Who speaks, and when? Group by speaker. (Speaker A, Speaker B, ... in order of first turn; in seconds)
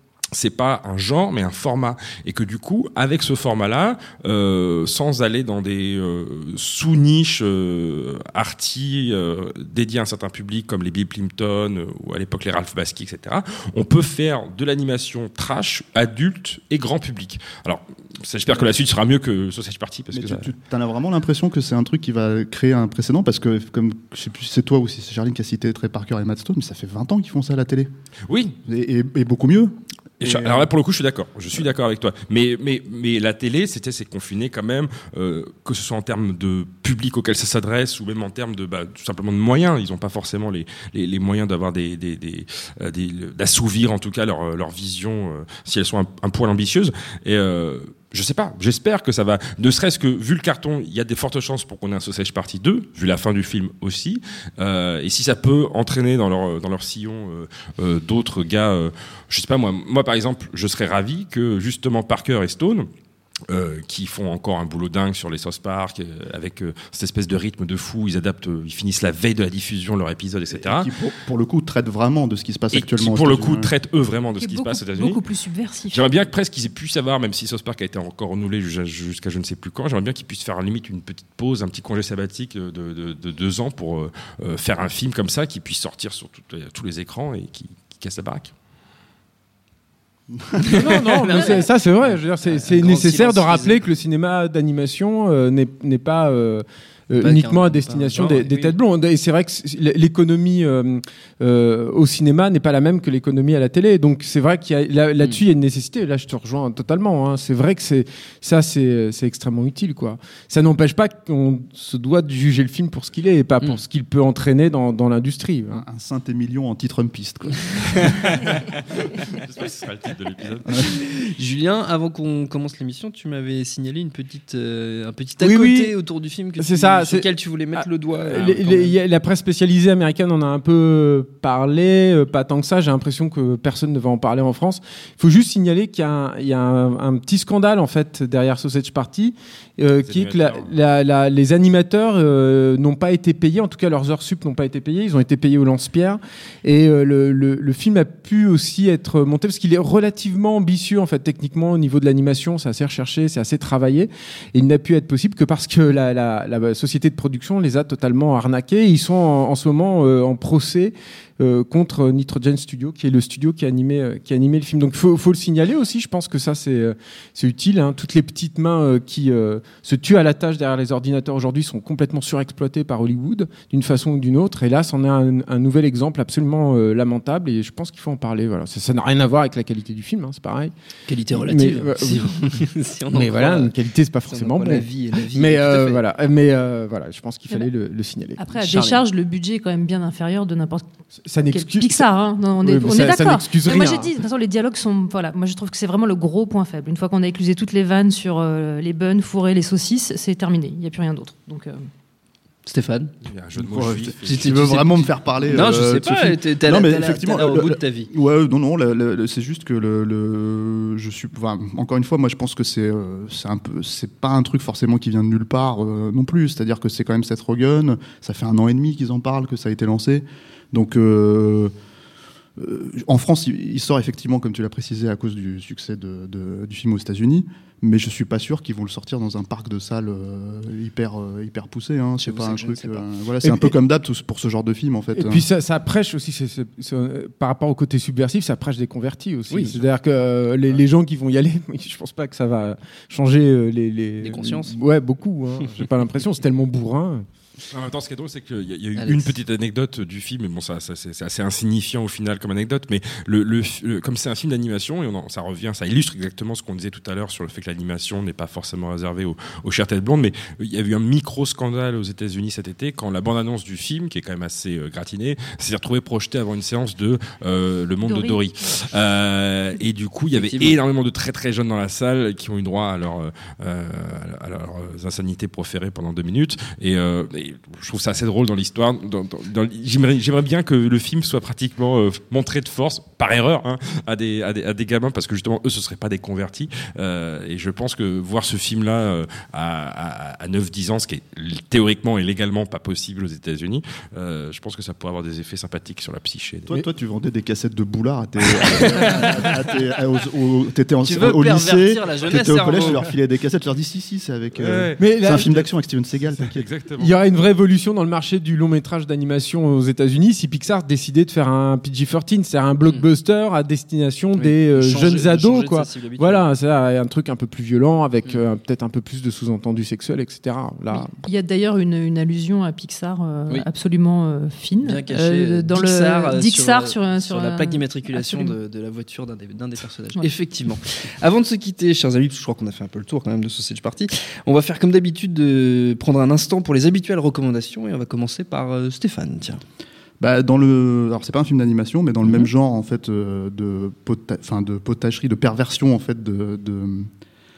Speaker A: 0.3-20.5, 28.3-28.6, 30.2-62.9, 63.5-70.9, 72.7-75.2, 75.9-88.5, 118.3-120.8, 140.0-140.7, 203.2-204.9, 247.7-296.7, 304.6-305.6, 306.3-307.1
Speaker B: 20.1-27.9, 28.7-30.7, 70.5-73.7, 115.7-118.1, 203.6-221.7, 222.6-235.5, 296.7-306.7, 340.2-347.1
Speaker C: 74.4-76.0, 188.4-190.9, 191.5-201.9, 268.0-268.4, 320.9-328.6
Speaker D: 90.6-93.8, 97.2-98.8, 120.8-128.9, 181.1-183.8, 184.3-186.0, 188.7-189.0, 202.7-203.1, 204.2-208.1, 232.2-233.0, 239.5-239.8, 244.2-244.8, 249.0-249.3, 270.3-270.8, 298.9-299.3, 301.0-303.0, 314.4-316.4, 324.8-339.6
Speaker E: 90.7-115.8, 125.4-125.9, 126.6-180.7, 181.3-182.3, 183.1-188.5, 191.2-192.1, 192.6-194.1, 233.4-233.7, 235.2-247.3, 305.0-305.5, 307.0-321.1